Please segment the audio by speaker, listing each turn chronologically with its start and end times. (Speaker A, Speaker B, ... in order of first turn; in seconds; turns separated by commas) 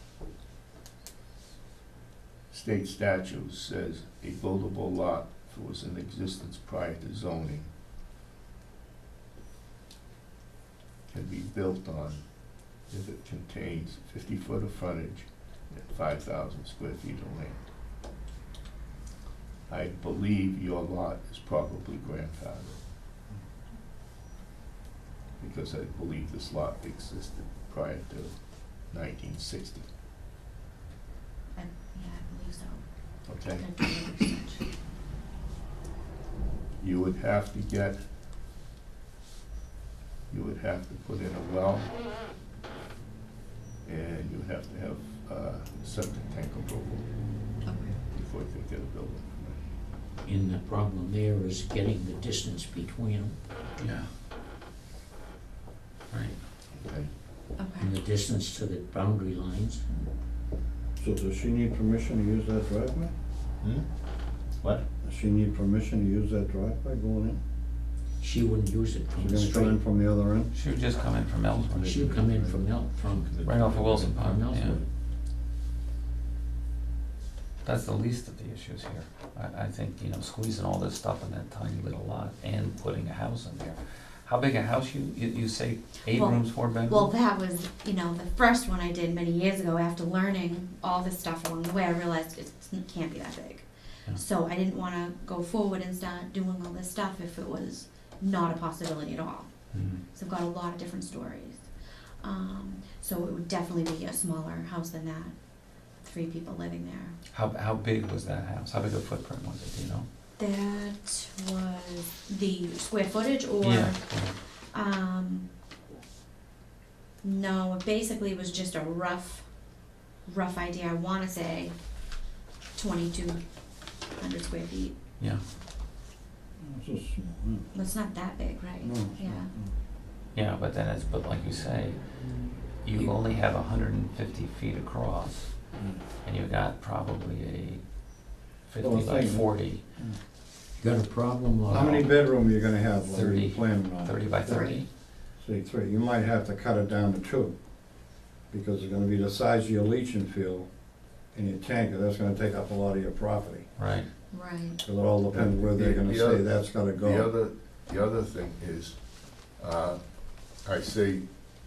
Speaker A: 2.5-7.7, Speaker A: 11.1-12.2, Speaker A: 12.9-17.6, Speaker A: 19.7-22.8, Speaker A: 25.4-28.3, Speaker A: 28.9-29.9, Speaker B: 31.6-32.8, Speaker A: 33.3-33.6, Speaker B: 33.5-34.6, Speaker A: 36.8-38.0, Speaker A: 40.3-41.9, Speaker A: 43.9-47.0, Speaker B: 47.6-48.0, Speaker A: 48.1-49.6, Speaker C: 50.2-53.4, Speaker D: 53.8-54.1, Speaker D: 56.1-56.4, Speaker A: 56.7-57.1, Speaker B: 57.6-57.9, Speaker C: 57.8-59.8, Speaker E: 61.0-63.1, Speaker A: 63.6-63.9, Speaker E: 65.0-67.4, Speaker C: 68.2-69.8, Speaker E: 69.2-70.5, Speaker D: 70.5-72.2, Speaker C: 71.8-74.8, Speaker A: 71.9-74.1, Speaker D: 73.4-74.8, Speaker D: 77.6-87.1, Speaker B: 86.1-99.5, Speaker D: 99.7-100.0, Speaker B: 100.1-101.7, Speaker B: 102.2-105.3, Speaker B: 106.0-107.2, Speaker D: 107.3-110.1, Speaker B: 110.4-114.0, Speaker D: 113.6-114.3, Speaker B: 114.7-115.5, Speaker B: 117.2-119.5, Speaker B: 120.3-121.7, Speaker B: 122.8-123.4, Speaker B: 124.2-125.0, Speaker E: 126.6-127.7, Speaker B: 127.7-129.5, Speaker E: 128.8-129.7, Speaker D: 130.3-132.0, Speaker D: 132.8-135.5, Speaker D: 136.2-137.8, Speaker D: 138.7-139.8, Speaker E: 138.8-140.2, Speaker C: 140.8-142.1, Speaker E: 141.7-144.7, Speaker D: 143.1-144.9, Speaker B: 144.5-144.7, Speaker E: 145.4-147.6, Speaker E: 148.5-150.7, Speaker E: 151.3-153.7, Speaker D: 153.8-154.1, Speaker B: 154.3-154.8, Speaker E: 154.8-157.3, Speaker A: 155.3-156.5, Speaker A: 157.0-159.0, Speaker A: 159.6-160.0, Speaker A: 160.6-161.3